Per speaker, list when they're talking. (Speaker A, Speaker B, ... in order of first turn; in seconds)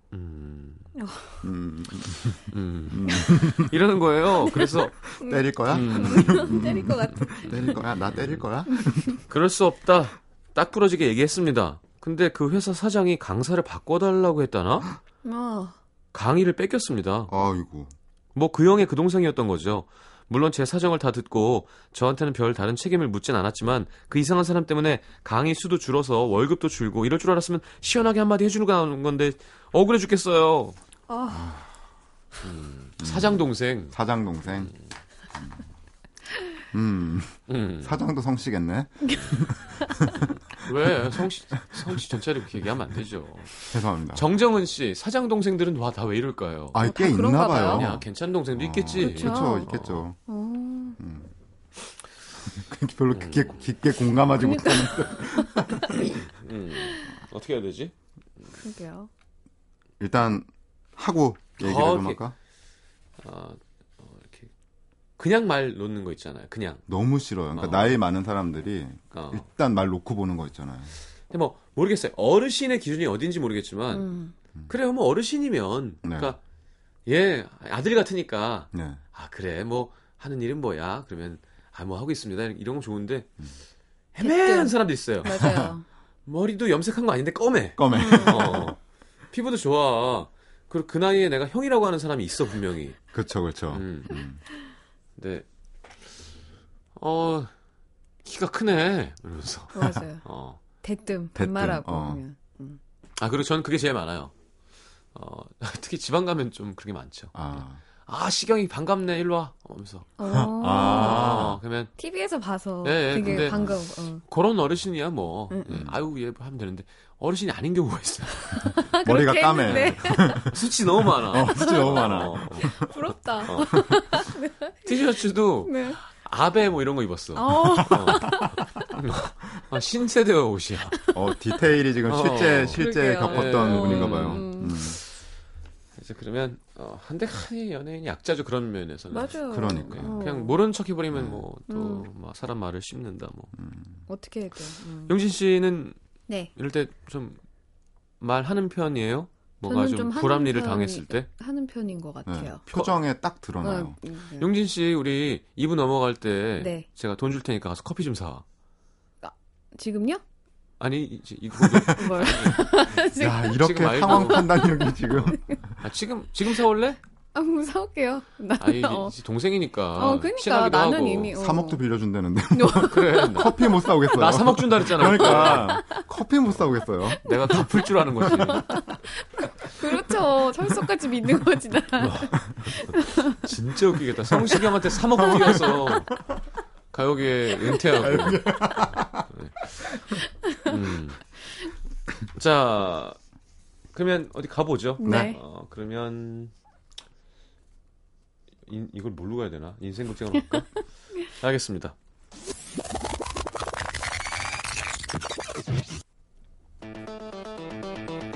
Speaker A: 0.1-0.9, 2.3-5.0, 5.7-6.7, 7.4-8.4, 9.3-14.9, 16.1-17.3, 18.3-30.8, 32.4-33.9, 34.5-34.8, 37.5-38.0, 40.5-46.8, 47.6-50.0, 53.1-53.6, 56.2-57.9, 61.6-62.2, 63.2-64.5, 65.2-66.8, 67.5-67.9, 69.1-69.4, 71.3-74.1, 74.7-76.4, 77.1-83.3, 84.1-85.7, 86.2-88.8, 89.3-93.0, 93.7-94.2, 95.2-95.5, 97.0-97.5, 98.2-100.6, 103.2-104.3, 105.1-111.9, 112.8-118.7, 120.5-122.7, 123.4-123.8, 124.8-131.0, 132.1-135.0, 136.0-143.5, 145.1-145.9, 146.5-147.4, 148.2-151.3, 152.7-153.0, 154.4-158.4, 160.8-162.9, 163.5-164.5, 165.8-167.0, 168.6-171.3, 172.8-175.8, 177.2-178.8, 182.0-182.3, 183.3-186.1, 186.9-188.5, 189.3-189.6, 190.6-191.2, 192.3-193.2, 193.9-196.5, 198.7-201.9
Speaker B: 0.9-1.4, 5.2-7.5, 8.7-9.1, 15.2-15.8, 31.1-31.5, 46.8-47.8, 49.0-49.7, 50.2-51.0, 54.4-55.3, 58.5-59.1, 73.9-74.3, 84.2-85.8, 87.9-88.6, 99.7-100.2, 100.8-102.8, 110.2-111.5, 112.0-114.2, 118.5-120.5, 121.5-122.1, 122.6-125.0, 125.6-126.0, 127.3-128.6, 132.7-134.8, 139.1-140.6, 141.7-142.1, 144.1-145.1, 149.6-152.6, 153.6-154.5, 156.6-156.8, 159.2-160.2, 161.9-165.0, 167.3-169.1, 169.9-171.8, 172.5-173.7, 175.2-176.0, 177.1-183.4, 195.0-195.4
Speaker C: 1.4-2.4, 2.9-3.8, 5.1-9.2, 17.3-17.9, 31.3-31.7, 33.0-34.7, 35.3-35.6, 36.7-40.3, 43.7-44.2, 46.7-50.1, 51.0-51.3, 52.5-56.1, 60.0-62.3, 66.9-70.9, 76.0-76.3, 78.7-79.0, 85.3-85.7, 87.8-88.7, 93.1-94.4, 101.3-102.2, 107.3-107.8, 110.3-111.6, 113.2-113.8, 115.7-116.0, 119.0-122.8, 131.1-135.0, 139.5-140.2, 141.1-141.4, 143.6-144.0, 152.2-154.0, 163.1-165.8, 171.3-177.2, 185.2-185.9, 187.8-189.3, 195.0-195.3